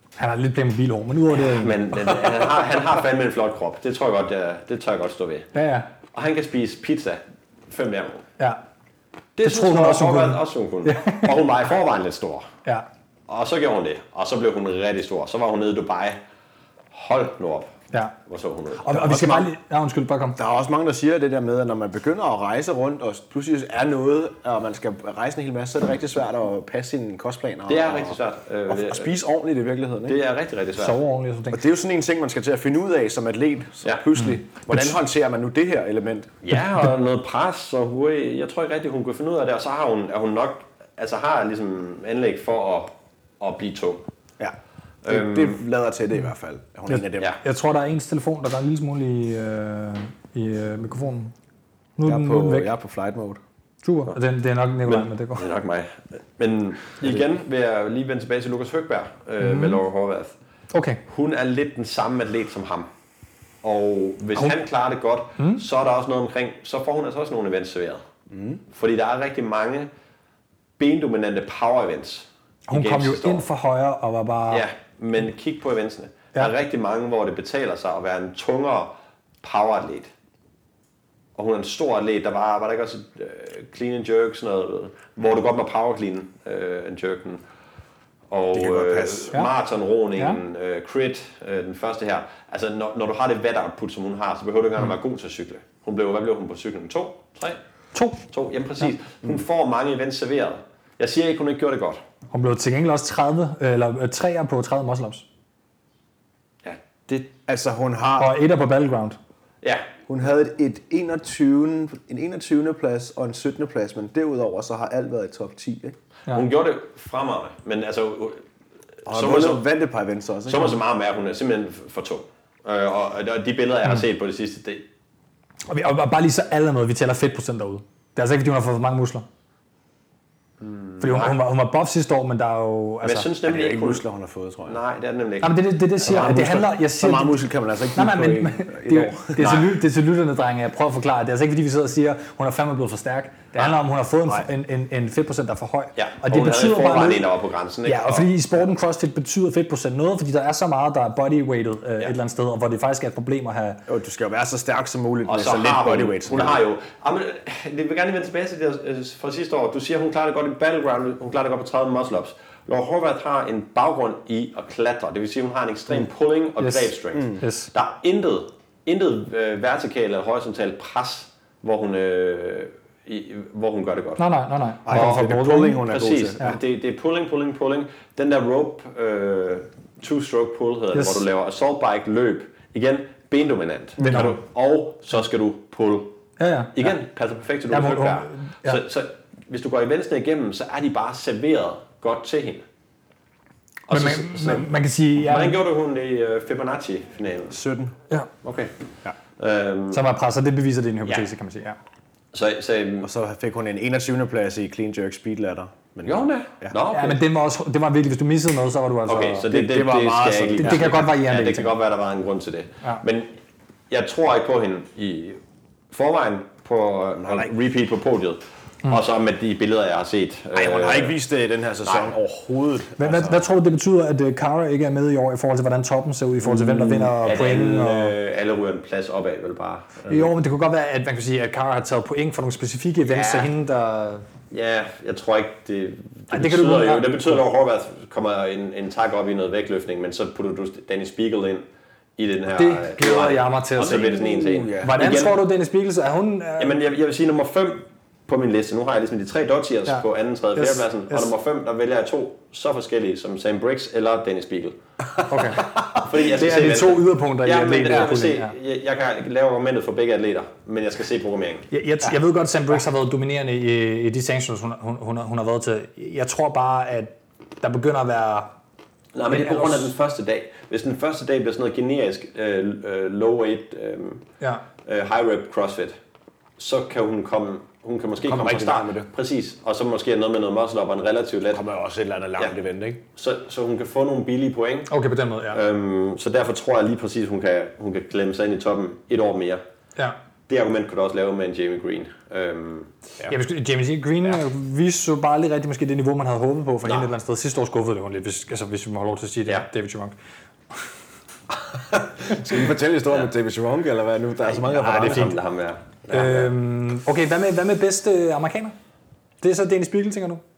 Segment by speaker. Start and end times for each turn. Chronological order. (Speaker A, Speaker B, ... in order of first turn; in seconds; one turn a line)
Speaker A: 0.2-1.9
Speaker B: 1.4-5.5
Speaker A: 5.5-5.9
Speaker B: 6.1-8.2
Speaker B: 9.4-12.5
Speaker A: 9.4-11.4
Speaker B: 13.3-16.2
Speaker B: 16.9-17.7
Speaker B: 18.3-19.5
Speaker A: 18.8-20.4
Speaker C: 20.4-30.2
Speaker B: 27.7-29.1
Speaker B: 30.1-31.0
Speaker A: 30.8-31.6
Speaker C: 31.5-36.4
Speaker B: 36.4-44.1
Speaker B: 45.0-45.6
Speaker C: 45.1-47.4
Speaker A: 46.9-51.3
Speaker A: 52.0-52.7
Speaker C: 52.0-53.4
Speaker A: 53.8-55.5
Speaker B: 54.9-60.3
Speaker A: 59.4-59.8
Speaker A: 60.7-61.0
Speaker B: 61.1-62.9
Speaker B: 63.6-68.0
Speaker C: 68.3-68.6
Speaker B: 68.7-69.9
Speaker B: 70.8-73.5
Speaker A: 72.7-74.7
Speaker B: 74.5-80.1
Speaker B: 81.4-87.4
Speaker B: 88.3-97.6
Speaker C: 88.5-89.4
Speaker A: 97.9-98.2
Speaker B: 98.3-102.0
Speaker A: 102.3-105.2
Speaker B: 106.6-107.3
Speaker C: 107.5-108.3
Speaker A: 108.2-109.2
Speaker B: 109.6-109.9
Speaker C: 110.1-116.0
Speaker B: 116.3-118.4
Speaker B: 119.0-119.6
Speaker C: 119.1-120.8
Speaker B: 120.5-124.8
Speaker A: 125.7-129.3
Speaker B: 130.6-131.4
Speaker A: 131.0-133.3
Speaker B: 133.0-134.0
Speaker C: 133.5-134.8
Speaker B: 134.7-136.7
Speaker A: 135.4-137.4
Speaker C: 136.1-139.4
Speaker A: 137.9-147.3
Speaker B: 139.4-139.7
Speaker B: 146.0-148.3
Speaker A: 147.8-153.8
Speaker C: 153.9-156.6
Speaker B: 155.3-174.2
Speaker A: 166.6-167.7
Speaker A: 174.2-176.6
Speaker C: 174.9-176.6
Speaker B: 174.9-186.2
Speaker A: 180.9-181.2
Speaker C: 184.0-184.3
Speaker A: 184.0-184.4
Speaker A: 186.4-186.9
Speaker B: 186.8-192.7
Speaker A: 187.7-188.8
Speaker A: 193.9-195.6
Speaker B: 193.9-197.6
Speaker C: 197.5-197.9
Speaker B: 198.4-198.7
Speaker B: 199.4-200.0
Speaker A: 199.9-201.8
Speaker B: 202.3-203.1
Speaker C: 203.0-206.8
Speaker B: 206.1-207.2
Speaker A: 206.9-209.5
Speaker B: 209.1-213.3
Speaker C: 209.5-211.0
Speaker A: 210.6-211.7
Speaker B: 213.9-215.4
Speaker B: 215.9-221.2
Speaker C: 217.2-217.5
Speaker C: 220.5-223.4
Speaker B: 221.8-222.1
Speaker A: 223.0-228.2
Speaker B: 226.5-230.3
Speaker A: 230.1-234.2
Speaker B: 233.1-233.5
Speaker B: 234.5-241.7
Speaker A: 236.3-237.4
Speaker B: 242.2-245.4
Speaker A: 242.5-246.8
Speaker C: 244.2-245.0
Speaker B: 246.6-254.8
Speaker A: 249.9-251.3
Speaker A: 255.3-255.8
Speaker B: 255.7-261.7
Speaker A: 256.3-258.5
Speaker C: 257.9-258.1
Speaker A: 261.7-268.5
Speaker B: 269.1-274.2
Speaker A: 269.3-269.9
Speaker B: 274.9-276.0
Speaker B: 276.6-281.6
Speaker C: 278.2-279.1
Speaker C: 281.5-283.0
Speaker B: 283.2-284.9
Speaker A: 284.9-285.6
Speaker B: 285.5-289.6
Speaker B: 290.5-292.9
Speaker A: 293.3-300.2
Speaker C: 301.7-305.4
Speaker B: 304.5-306.5
Speaker A: 305.0-305.3
Speaker A: 306.1-308.8
Speaker A: 309.4-310.4